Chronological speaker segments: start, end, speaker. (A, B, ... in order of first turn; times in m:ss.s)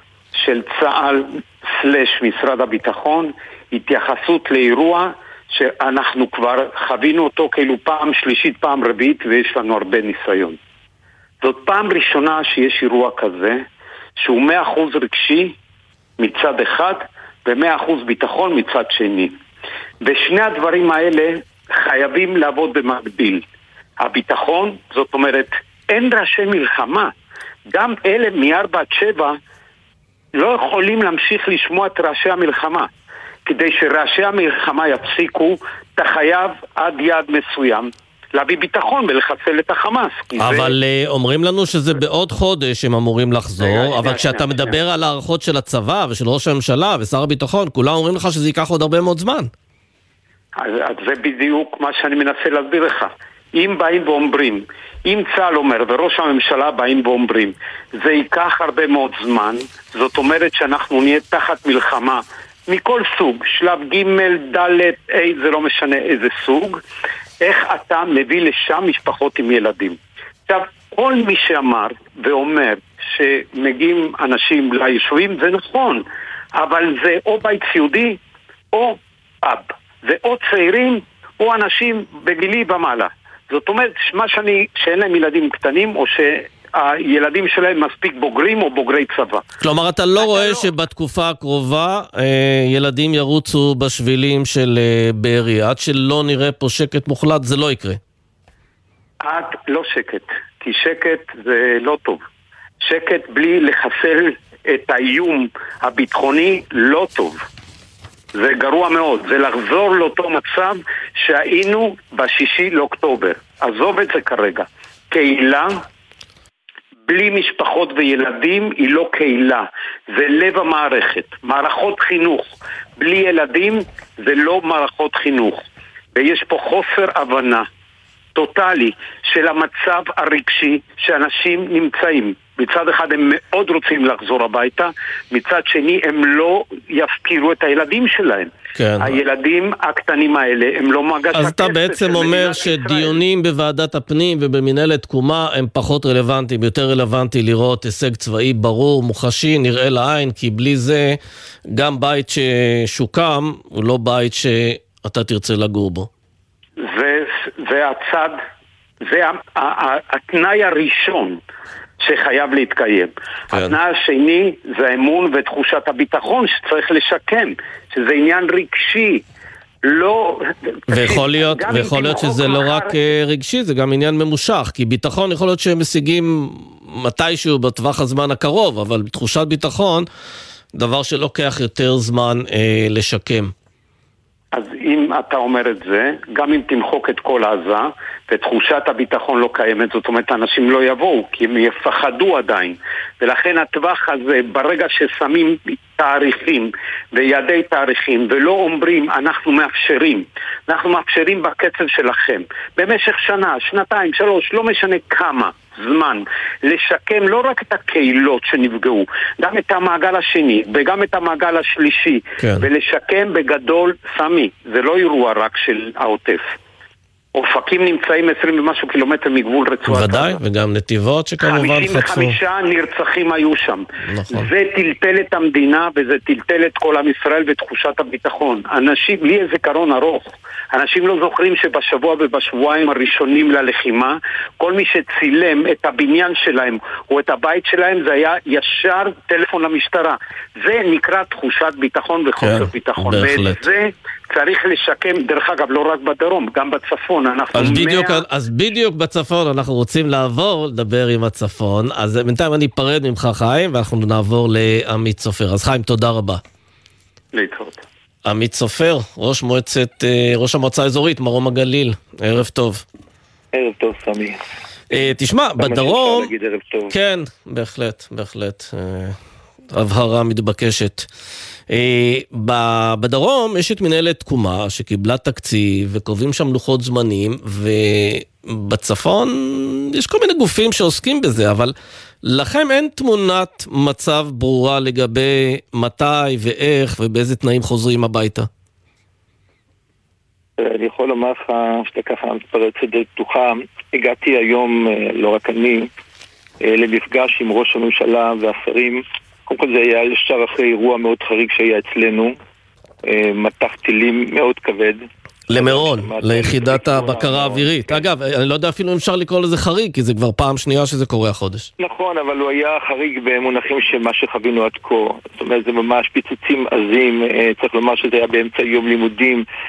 0:00.4-0:10.6 A
0:11.4-0:13.6 A
0:14.2-0:15.5 A
0:16.2-0:19.4 A
0:20.0-0:23.4 A
0:24.0-0:27.1 A
0:27.7-0:29.4 A
0:30.4-0:32.9 A
0:33.4-0:40.7 A
0:40.4-0:49.5 B
0:43.6-0:44.8 A
0:50.6-1:06.8 A
1:07.4-1:16.0 A
1:16.6-1:18.2 A
1:18.7-1:29.4 A
1:29.6-1:38.0 B
1:30.2-1:30.7 A
1:39.2-1:42.2 A
1:42.8-1:47.4 A
1:48.4-1:55.8 A
1:57.1-2:05.6 A
2:06.2-2:07.6 A
2:08.4-2:23.2 A
2:18.7-2:19.1 B
2:21.3-2:31.2 B
2:31.7-2:36.1 B
2:36.8-2:38.4 A
2:39.0-2:41.4 A
2:42.0-2:49.2 A
2:49.8-2:53.0 A
2:50.9-3:00.1 B
3:00.7-3:03.5 B
3:04.5-3:36.5 A
3:32.4-3:32.7 B
3:37.4-3:40.4 A
3:39.9-3:42.4 B
3:41.4-4:08.2 A
3:44.1-3:44.5 B
4:02.4-4:03.6 B
4:07.5-4:16.4 B
4:17.3-4:17.8 A
4:18.2-4:22.8 B
4:23.5-4:24.4 C
4:24.9-4:26.3 B
4:24.9-4:26.9 C
4:26.9-4:29.2 B
4:29.7-4:31.1 B
4:31.7-4:48.5 B
4:50.6-4:55.9 C
4:56.6-5:02.4 C
5:03.0-5:05.0 C
5:05.5-5:11.7 B
5:05.6-5:08.1 C
5:11.8-5:19.4 C